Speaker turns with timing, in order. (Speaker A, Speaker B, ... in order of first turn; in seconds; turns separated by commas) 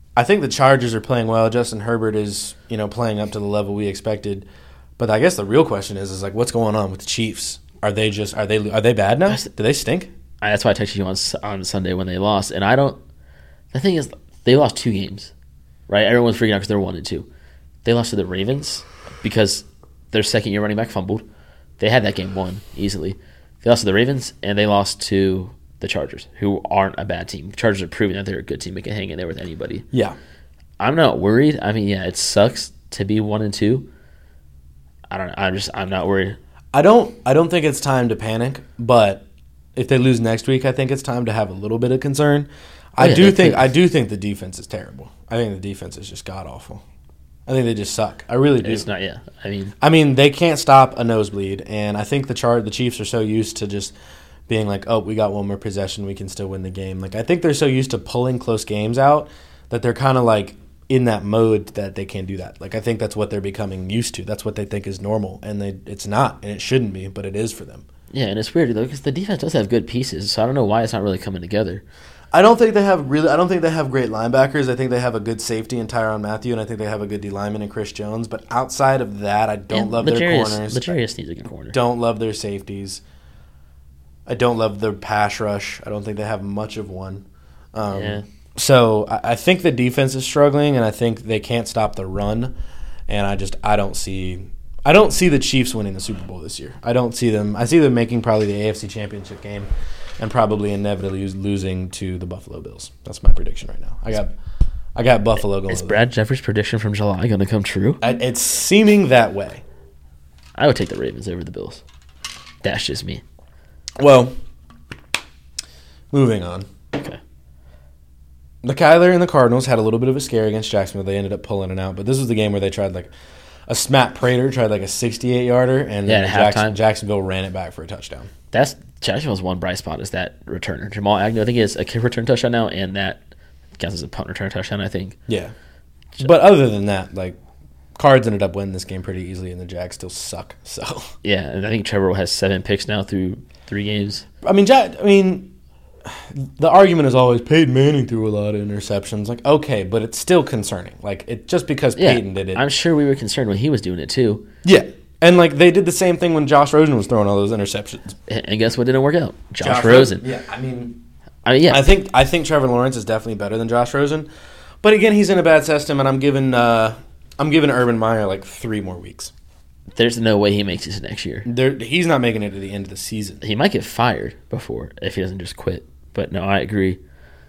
Speaker A: 0.1-4.5, Speaker A: 5.0-10.1, Speaker B: 10.4-13.0, Speaker B: 13.7-15.3, Speaker B: 15.9-17.3, Speaker B: 17.8-21.2, Speaker B: 21.8-29.9, Speaker A: 29.9-30.2, Speaker B: 30.8-33.9, Speaker B: 35.1-36.4, Speaker A: 36.7-39.2, Speaker A: 39.8-46.8, Speaker B: 43.0-43.7, Speaker A: 47.5-48.9, Speaker B: 48.6-49.7, Speaker A: 49.8-53.9, Speaker A: 54.5-67.8, Speaker B: 68.1-71.8, Speaker A: 72.3-81.0, Speaker B: 79.7-81.8, Speaker A: 81.7-83.0, Speaker A: 84.2-92.5, Speaker B: 87.9-88.2, Speaker A: 93.1-104.3, Speaker A: 105.0-106.0, Speaker B: 105.7-108.0, Speaker A: 108.0-109.6, Speaker B: 110.5-111.8, Speaker B: 112.6-113.2, Speaker A: 114.0-114.3, Speaker A: 116.1-116.7, Speaker B: 116.9-117.2, Speaker A: 118.6-123.1, Speaker A: 123.7-128.3, Speaker B: 126.0-126.8, Speaker B: 128.5-133.2, Speaker B: 133.8-135.2, Speaker A: 135.3-135.5, Speaker A: 136.2-137.4, Speaker A: 138.0-141.1, Speaker B: 141.2-144.2, Speaker A: 144.4-145.5, Speaker A: 146.1-152.6, Speaker B: 151.9-154.4, Speaker A: 154.6-158.2, Speaker B: 158.3-160.2, Speaker A: 159.6-161.0, Speaker B: 161.4-161.9, Speaker A: 161.7-164.3, Speaker A: 164.8-169.3, Speaker B: 169.9-171.5, Speaker A: 171.4-173.4, Speaker B: 173.4-177.0